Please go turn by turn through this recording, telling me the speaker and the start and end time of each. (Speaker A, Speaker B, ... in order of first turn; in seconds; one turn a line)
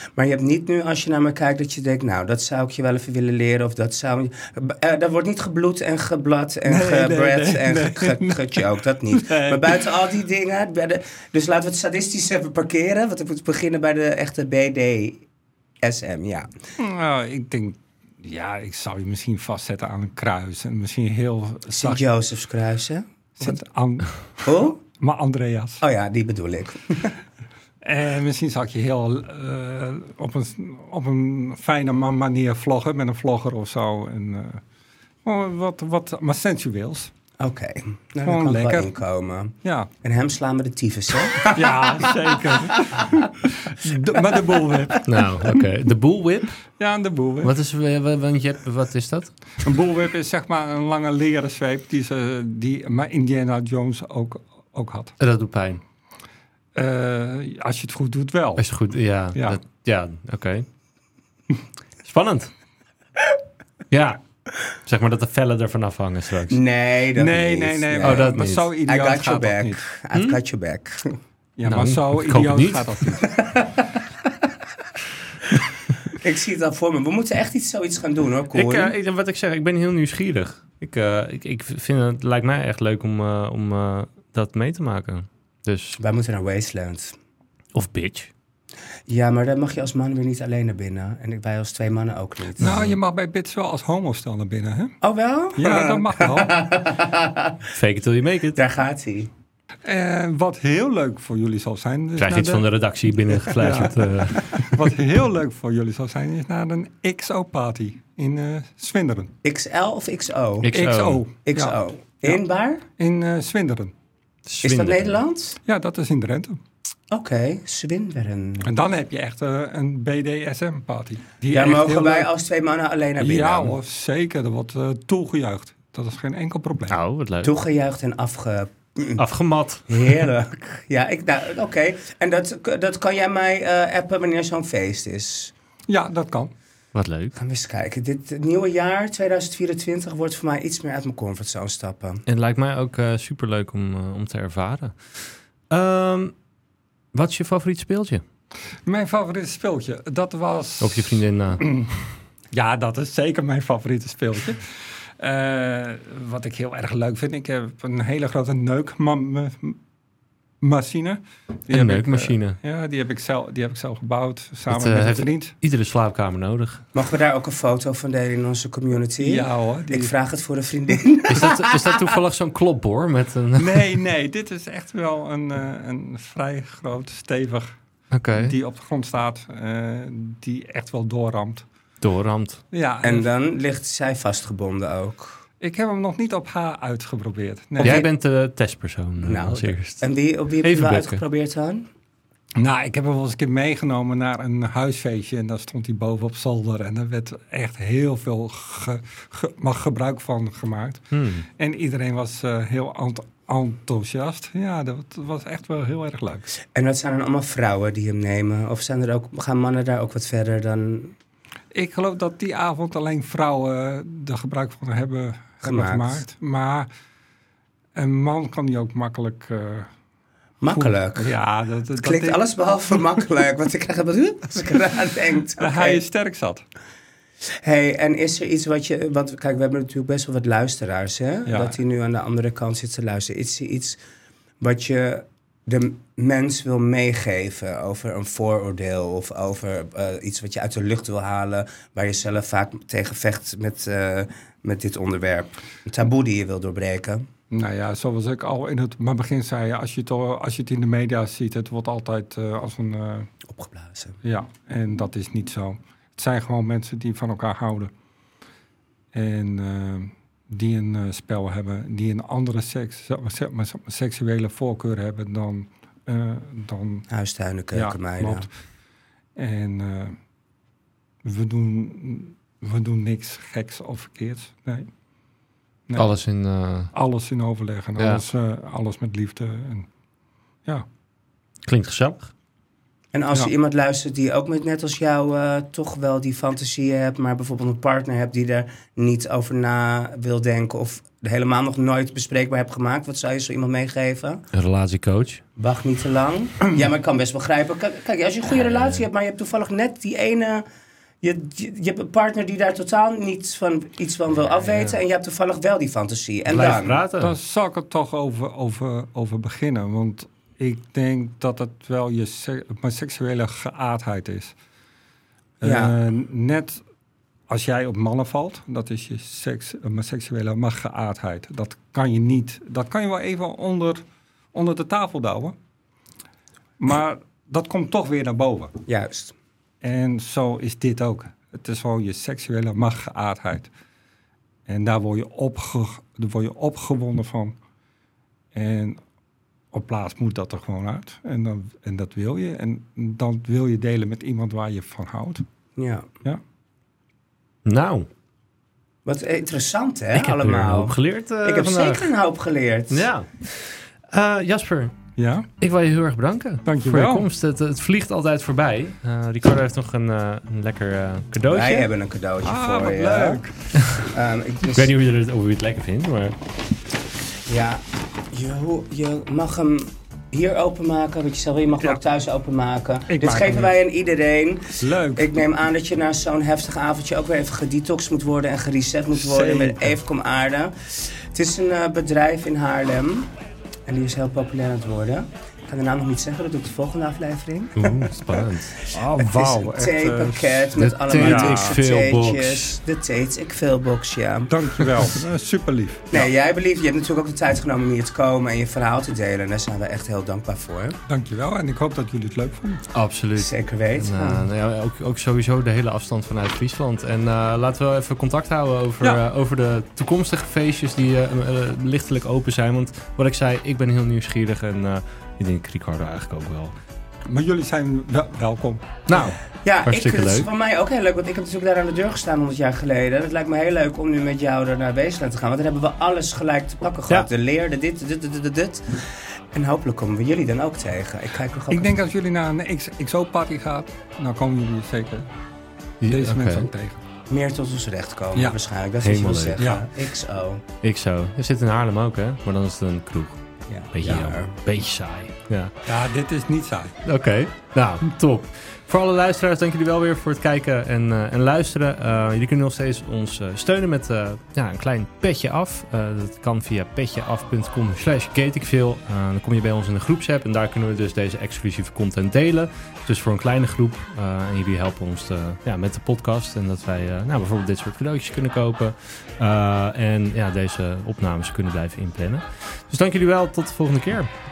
Speaker A: 0.2-15.2
Speaker B: 6.7-9.9
Speaker A: 15.8-16.5
Speaker B: 16.8-22.0
Speaker A: 21.7-23.6
Speaker B: 23.4-25.8
Speaker A: 24.4-24.8
Speaker A: 25.8-27.1
Speaker B: 27.8-34.6
Speaker B: 35.2-37.1
Speaker A: 37.4-43.3
Speaker B: 38.2-38.9
Speaker B: 39.6-39.9
Speaker B: 41.4-45.6
Speaker C: 45.0-46.6
Speaker B: 46.8-47.5
Speaker C: 47.4-49.3
Speaker B: 49.6-55.1
Speaker C: 55.2-55.8
Speaker B: 56.7-58.6
Speaker C: 58.6-60.7
Speaker B: 59.3-59.6
Speaker C: 62.0-62.5
Speaker C: 63.9-64.2
Speaker C: 64.7-66.6
Speaker A: 66.5-71.2
Speaker B: 67.2-69.9
Speaker C: 68.0-68.7
Speaker C: 70.1-70.4
Speaker B: 71.6-73.3
Speaker C: 71.7-73.0
Speaker A: 73.2-73.9
Speaker A: 76.0-78.9
Speaker C: 78.5-86.0
Speaker A: 86.0-87.2
Speaker C: 87.7-88.3
Speaker A: 89.1-92.7
Speaker B: 92.6-95.0
Speaker C: 92.6-92.9
Speaker A: 95.0-97.6
Speaker B: 95.5-96.5
Speaker C: 97.7-98.6
Speaker A: 98.5-99.3
Speaker B: 99.8-102.7
Speaker C: 102.2-104.8
Speaker B: 103.3-109.3
Speaker A: 109.4-110.7
Speaker C: 110.6-111.2
Speaker B: 110.7-111.8
Speaker A: 111.4-112.8
Speaker B: 113.0-113.9
Speaker C: 114.5-115.2
Speaker A: 114.6-115.6
Speaker B: 115.6-116.6
Speaker A: 117.1-118.7
Speaker B: 118.6-122.3
Speaker A: 121.5-123.8
Speaker B: 123.2-127.0
Speaker C: 126.9-127.5
Speaker A: 127.4-129.2
Speaker C: 129.2-130.2
Speaker A: 129.9-135.5
Speaker B: 135.9-136.5
Speaker C: 136.9-137.3
Speaker A: 137.3-142.2
Speaker C: 142.3-146.3
Speaker C: 147.1-148.2
Speaker B: 148.8-159.8
Speaker C: 150.8-151.6
Speaker B: 160.6-165.5
Speaker C: 161.7-162.6
Speaker C: 164.7-166.8
Speaker A: 166.9-172.1
Speaker B: 169.2-170.1
Speaker C: 171.3-173.9
Speaker B: 173.6-177.7
Speaker C: 178.1-178.5
Speaker B: 178.3-181.7
Speaker C: 182.0-182.6
Speaker B: 182.7-183.3
Speaker A: 183.0-185.4
Speaker B: 185.6-188.1
Speaker A: 187.8-188.1
Speaker C: 187.8-190.1
Speaker A: 189.2-191.9
Speaker C: 190.6-191.2
Speaker B: 192.6-206.5
Speaker C: 201.1-201.4
Speaker A: 206.7-211.1
Speaker B: 211.7-216.9
Speaker A: 215.6-216.2
Speaker B: 217.9-219.9
Speaker A: 220.6-221.3
Speaker B: 220.7-222.4
Speaker A: 221.9-226.0
Speaker B: 225.6-226.6
Speaker A: 227.6-234.0
Speaker B: 231.5-231.7
Speaker A: 234.6-247.3
Speaker B: 247.5-253.3
Speaker A: 253.5-254.2
Speaker B: 254.2-257.9
Speaker B: 259.1-267.1
Speaker A: 267.1-268.5
Speaker B: 267.7-268.5
Speaker B: 269.4-270.2
Speaker B: 271.2-274.9
Speaker C: 275.9-276.9
Speaker B: 276.9-279.9
Speaker C: 281.6-282.3
Speaker A: 283.1-294.4
Speaker C: 294.5-295.4
Speaker A: 295.6-300.6
Speaker C: 298.6-299.0
Speaker A: 301.2-307.0
Speaker C: 306.5-307.3
Speaker B: 307.2-314.5
Speaker B: 315.6-316.8
Speaker A: 315.6-315.9
Speaker B: 317.5-325.5
Speaker B: 326.8-328.7
Speaker A: 328.9-329.3
Speaker B: 329.8-333.7
Speaker B: 334.7-337.6
Speaker B: 338.5-339.0
Speaker B: 339.7-345.4
Speaker A: 345.8-346.1
Speaker C: 347.6-348.1
Speaker A: 349.1-353.1
Speaker C: 350.1-352.1
Speaker C: 352.9-354.9
Speaker B: 355.1-355.5
Speaker C: 355.6-361.9
Speaker B: 356.6-357.3
Speaker A: 361.5-363.4
Speaker B: 362.4-363.6
Speaker C: 363.8-364.1
Speaker A: 364.0-364.9
Speaker C: 364.7-366.4
Speaker A: 367.5-383.3
Speaker B: 373.1-373.7
Speaker B: 374.8-375.3
Speaker B: 379.1-380.0
Speaker A: 383.9-388.2
Speaker C: 387.8-388.9
Speaker B: 388.9-391.8
Speaker A: 389.1-395.1
Speaker C: 390.8-392.8
Speaker B: 394.5-396.3
Speaker A: 396.1-401.0
Speaker B: 401.1-402.8
Speaker C: 402.9-416.7
Speaker A: 403.4-404.4
Speaker B: 417.2-419.0
Speaker C: 419.1-420.5
Speaker A: 419.6-432.0
Speaker B: 431.7-435.3
Speaker C: 436.0-436.7
Speaker B: 436.1-437.0
Speaker A: 437.3-440.6
Speaker C: 439.0-439.6
Speaker B: 439.6-439.9
Speaker C: 440.8-443.4
Speaker A: 443.7-444.5
Speaker C: 443.9-445.7
Speaker B: 445.9-447.0
Speaker C: 447.0-474.3